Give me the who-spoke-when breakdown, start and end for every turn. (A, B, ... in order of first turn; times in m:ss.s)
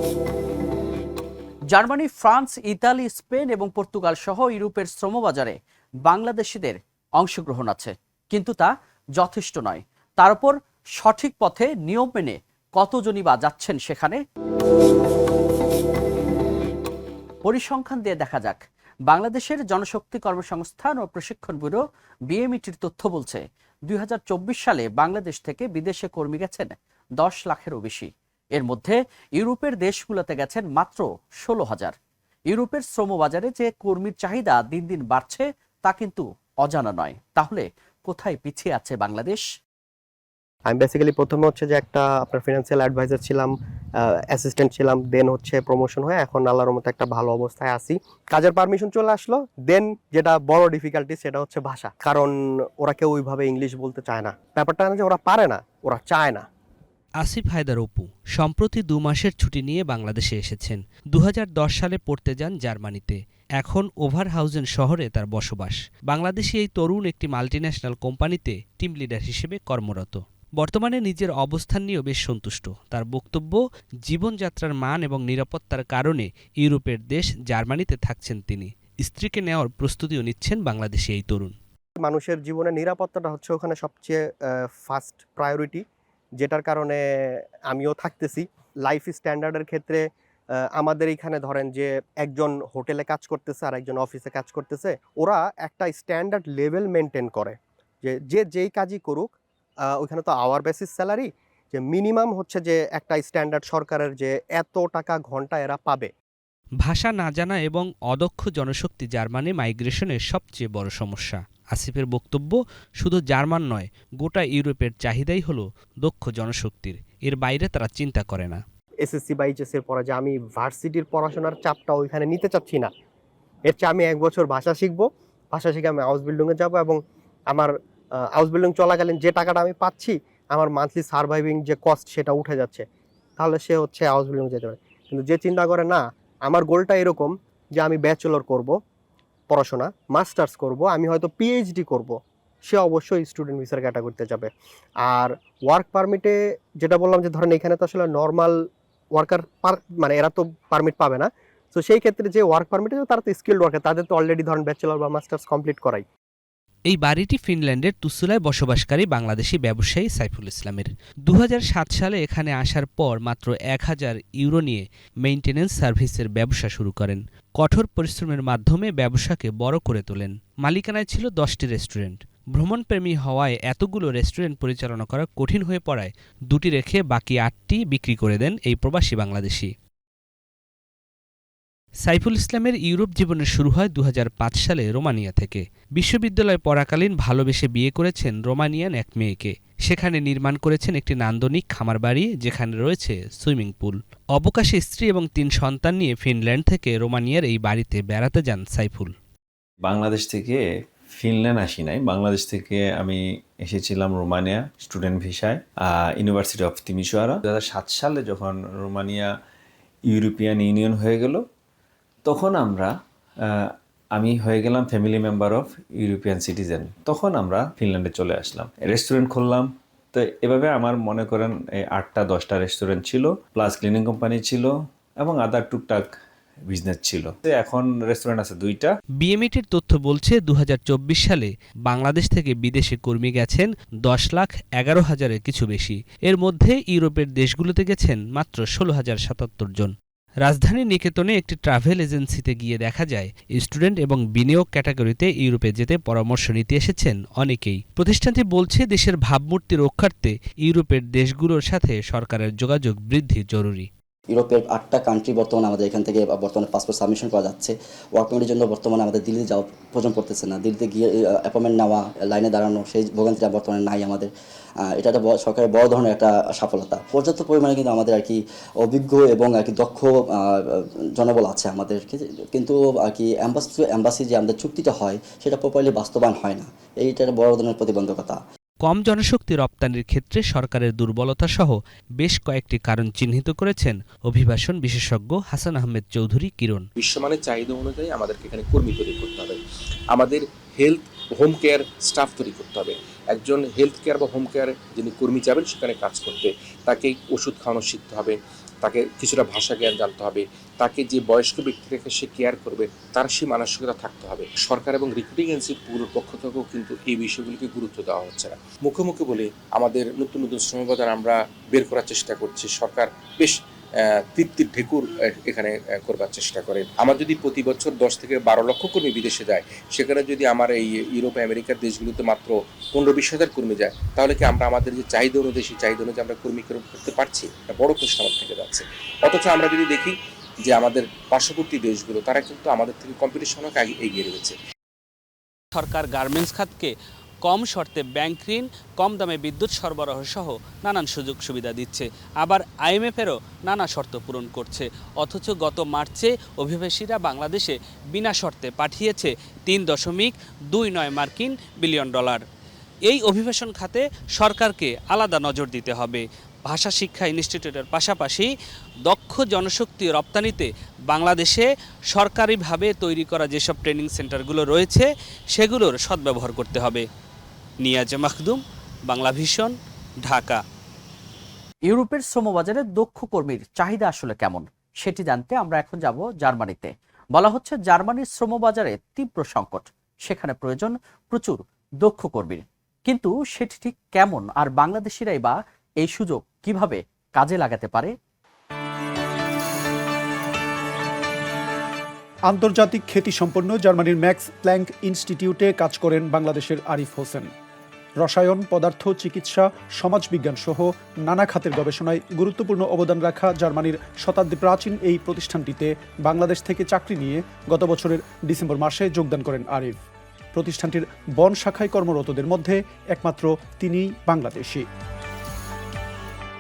0:01.7-0:05.6 A
0:06.1-0:14.2 A
0:17.4-0:32.0 A
0:32.5-0:39.4 A
0:40.7-0:43.5 B
0:44.3-0:56.4 B
0:57.2-1:21.5 C
1:22.0-1:25.8 B
1:26.4-1:27.0 B
1:27.7-1:30.0 B
1:30.8-1:39.3 B
1:39.9-1:46.1 B
1:46.8-1:58.6 C
1:59.0-2:02.9 B
2:03.7-2:07.0 B
2:08.4-2:12.8 B
2:13.4-2:18.8 B
2:19.5-2:24.5 B
2:25.1-2:28.6 B
2:29.2-2:36.0 B
2:36.9-2:59.7 C
3:02.1-3:19.1 C
3:19.8-3:29.3 D
3:30.1-3:31.4 D
3:32.2-3:32.9 D
3:33.5-3:46.1 D
3:46.7-3:48.9 D
3:49.2-3:59.9 C
4:00.4-4:13.9 C
4:14.3-4:24.3 E
4:24.9-4:30.5 E
4:31.2-4:38.4 E
4:38.8-4:46.8 C
4:47.0-4:49.6 F
4:50.1-5:13.6 F
5:14.3-5:34.6 F
5:35.8-5:36.9 C
5:37.4-5:52.4 C
5:53.1-5:58.5 C
5:59.1-6:07.1 C
6:07.8-6:10.6 C
6:11.9-6:28.1 A
6:32.5-6:37.5 G
6:38.2-6:50.0 G
6:50.6-6:54.8 G